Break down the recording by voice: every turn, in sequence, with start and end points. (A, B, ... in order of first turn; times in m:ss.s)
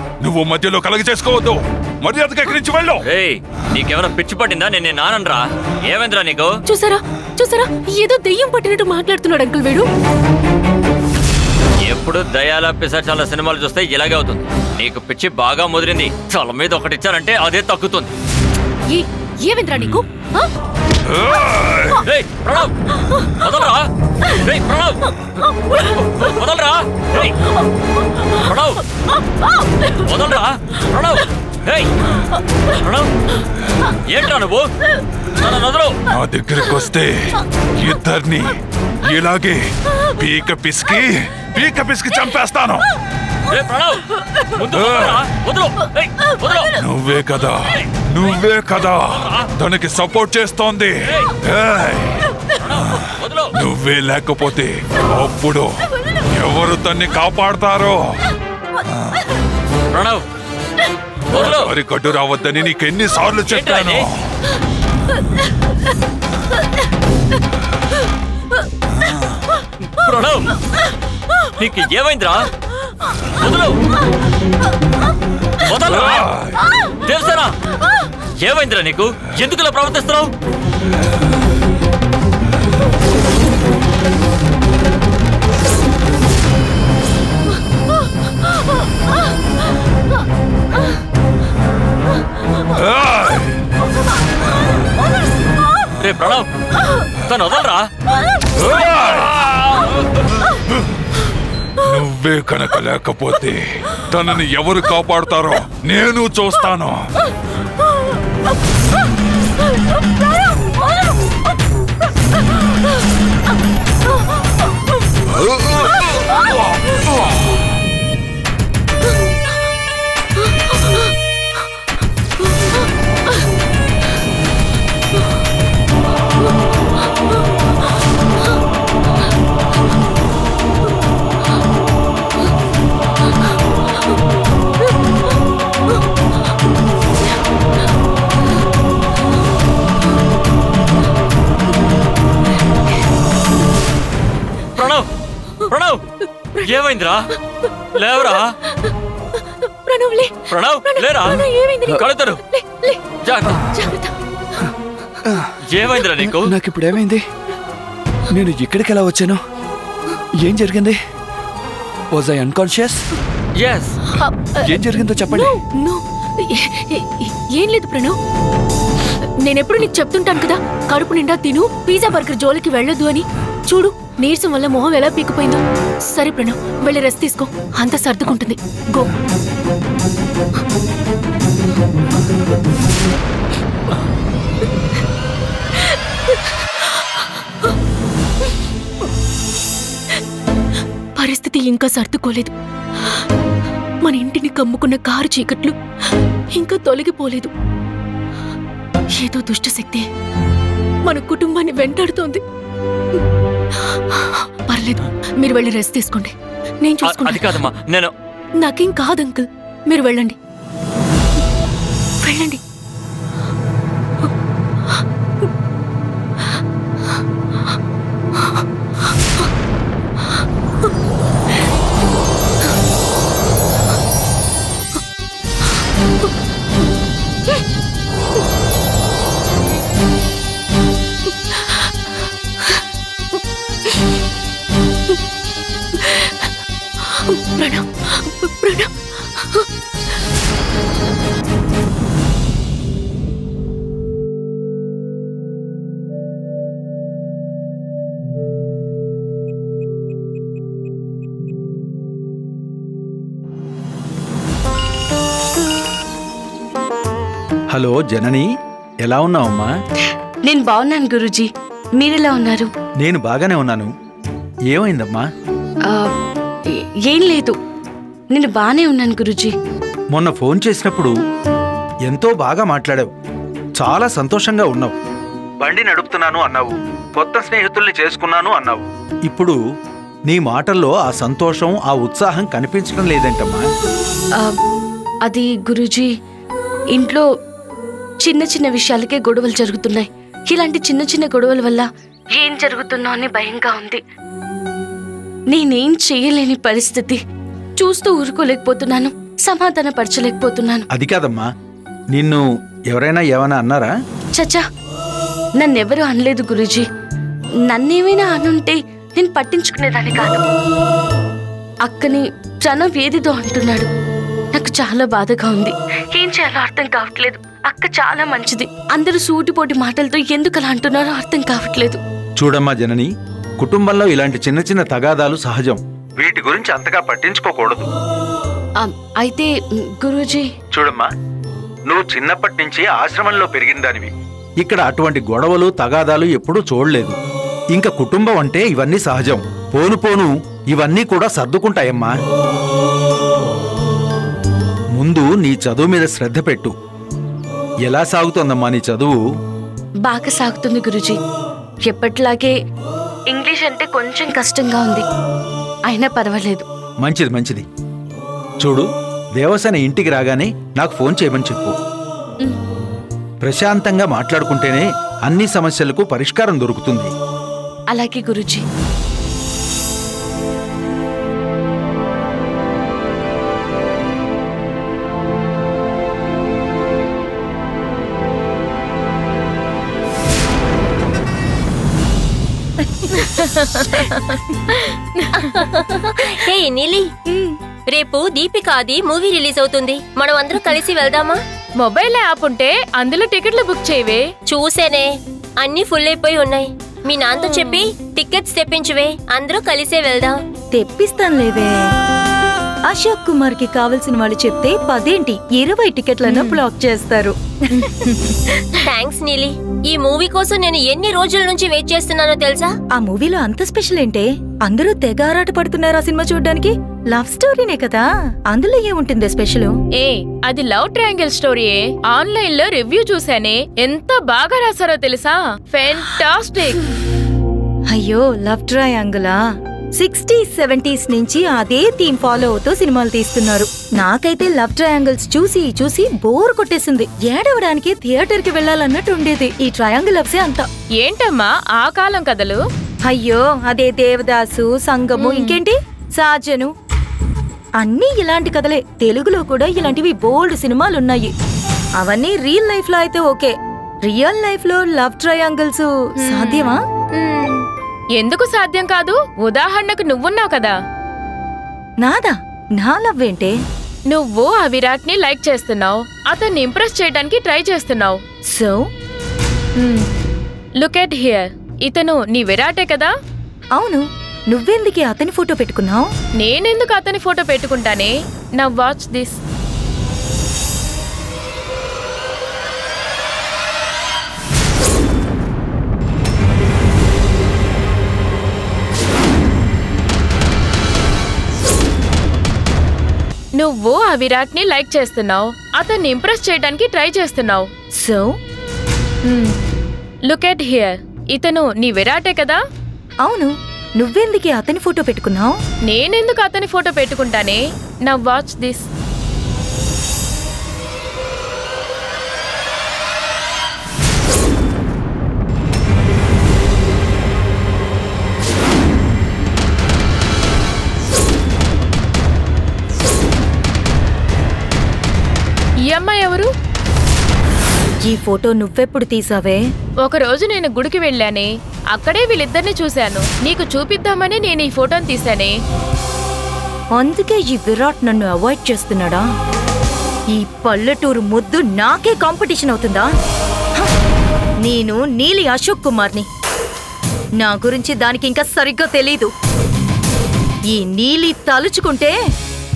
0:00.2-0:03.1 A
0:03.0-0:06.5 B
0:06.7-0:09.8 C
0:11.9-0:18.1 B
0:18.9-0:20.4 C
0:21.1-0:22.0 A
0:22.0-0:22.7 B
0:23.2-0:23.8 B
0:24.3-0:25.1 B
0:25.7-0:27.3 B
0:28.4-0:28.8 B
0:29.9-0:31.9 B
0:32.8-0:33.1 B
0:34.0-0:34.7 B
0:35.4-0:36.0 B
0:36.1-0:42.8 A
0:43.5-0:46.7 B
0:44.7-0:45.2 A
0:46.8-0:52.2 A
0:49.1-0:49.5 B
0:51.1-0:51.3 B
0:52.6-0:53.5 B
0:52.8-0:55.7 A
0:56.3-0:58.1 A
0:59.9-1:00.2 B
1:01.3-1:01.7 B
1:01.3-1:04.2 A
1:03.5-1:04.1 B
1:10.0-1:10.5 B
1:11.6-1:12.4 B
1:13.4-1:13.8 B
1:15.6-1:16.3 B
1:15.9-1:16.6 A
1:17.0-1:17.6 B
1:18.4-1:20.3 B
1:32.7-1:33.5 A
1:36.0-1:36.5 B
1:37.3-1:37.9 B
1:38.6-1:39.4 A
1:41.8-1:47.0 A
1:55.4-1:55.9 A
1:56.4-1:57.0 A
2:24.8-2:25.1 B
2:25.7-2:26.0 B
2:26.6-2:27.3 B
2:27.9-2:28.6 B
2:28.0-2:28.9 C
2:29.7-2:33.0 C
2:30.5-2:31.4 B
2:31.9-2:32.4 B
2:33.2-2:33.6 B
2:33.7-2:34.1 C
2:35.2-2:35.5 D
2:35.6-2:36.6 B
2:36.2-2:37.2 D
2:38.3-2:39.4 D
2:40.4-2:41.0 D
2:42.1-2:43.0 D
2:43.6-2:44.0 B
2:44.1-2:48.2 C
2:44.6-2:45.5 D
2:49.4-2:59.1 C
3:11.2-3:12.5 C
3:14.0-3:15.7 C
3:16.6-3:17.5 C
3:19.2-3:20.0 C
3:21.1-3:22.4 C
3:24.1-3:27.6 C
3:27.0-3:28.1 B
3:28.6-3:30.4 C
3:32.2-3:32.6 C
3:56.1-3:56.4 C
3:57.3-3:58.9 C
4:17.7-4:18.5 E
4:19.0-4:19.7 E
4:20.4-4:22.7 F
4:23.0-4:23.9 E
4:24.7-4:25.2 E
4:26.7-4:27.6 F
4:28.3-4:29.5 F
4:30.1-4:31.1 E
4:32.1-4:33.1 E
4:33.8-4:34.9 E
4:35.6-4:39.6 E
4:40.3-4:43.6 E
4:45.2-4:46.1 F
4:46.9-4:47.2 F
4:48.2-4:54.0 F
4:55.5-4:57.2 F
4:57.8-5:00.8 F
5:00.9-5:01.5 E
5:02.1-5:03.9 E
5:04.3-5:04.6 F
5:05.6-5:06.8 F
5:07.7-5:10.4 F
5:11.8-5:13.9 F
5:14.5-5:22.0 F
5:22.4-5:23.1 E
5:23.6-5:27.8 E
5:28.8-5:30.5 F
5:30.7-5:31.1 E
5:31.9-5:34.1 E
5:34.6-5:37.1 E
5:37.7-5:42.1 E
5:45.0-5:46.7 E
5:47.9-5:49.2 E
5:50.0-5:51.2 F
5:51.8-5:52.5 F
5:53.3-5:55.0 F
5:55.9-5:56.6 F
5:57.0-5:57.6 E
5:58.6-5:58.9 E
5:59.4-6:01.7 E
6:03.4-6:07.1 E
6:07.9-6:08.6 F
6:23.2-6:24.4 G
6:25.5-6:27.1 H
6:27.9-6:31.4 H
6:31.8-6:34.2 G
6:34.5-6:40.4 H
6:37.5-6:37.8 G
6:40.7-6:41.7 I
6:42.9-6:48.2 I
6:48.8-6:52.7 H
6:52.9-6:59.7 I
7:00.0-7:06.8 G
7:07.9-7:09.4 I
7:10.0-7:20.6 I
7:21.0-7:22.6 G
7:23.0-7:26.7 I
7:25.2-7:25.5 G
7:27.8-7:31.3 I
7:32.0-7:33.5 I
7:34.0-7:36.8 I
7:36.2-7:37.6 G
7:38.2-7:40.7 G
7:42.0-7:43.5 I
7:44.1-7:48.2 G
7:48.5-7:48.8 I
7:49.8-7:50.0 G
7:50.8-7:53.1 G
7:53.8-7:56.0 I
7:56.4-7:59.4 G
8:13.6-8:17.7 G
8:18.0-8:18.3 I
8:19.3-8:19.5 G
8:20.3-8:22.6 G
8:23.2-8:25.5 I
8:25.9-8:28.8 G
8:45.9-8:46.5 G
8:48.0-8:49.6 I
8:50.0-8:55.5 G
8:56.9-8:59.2 I
9:00.3-9:03.1 I
9:04.6-9:06.2 I
9:07.4-9:09.3 I
9:10.7-9:12.1 I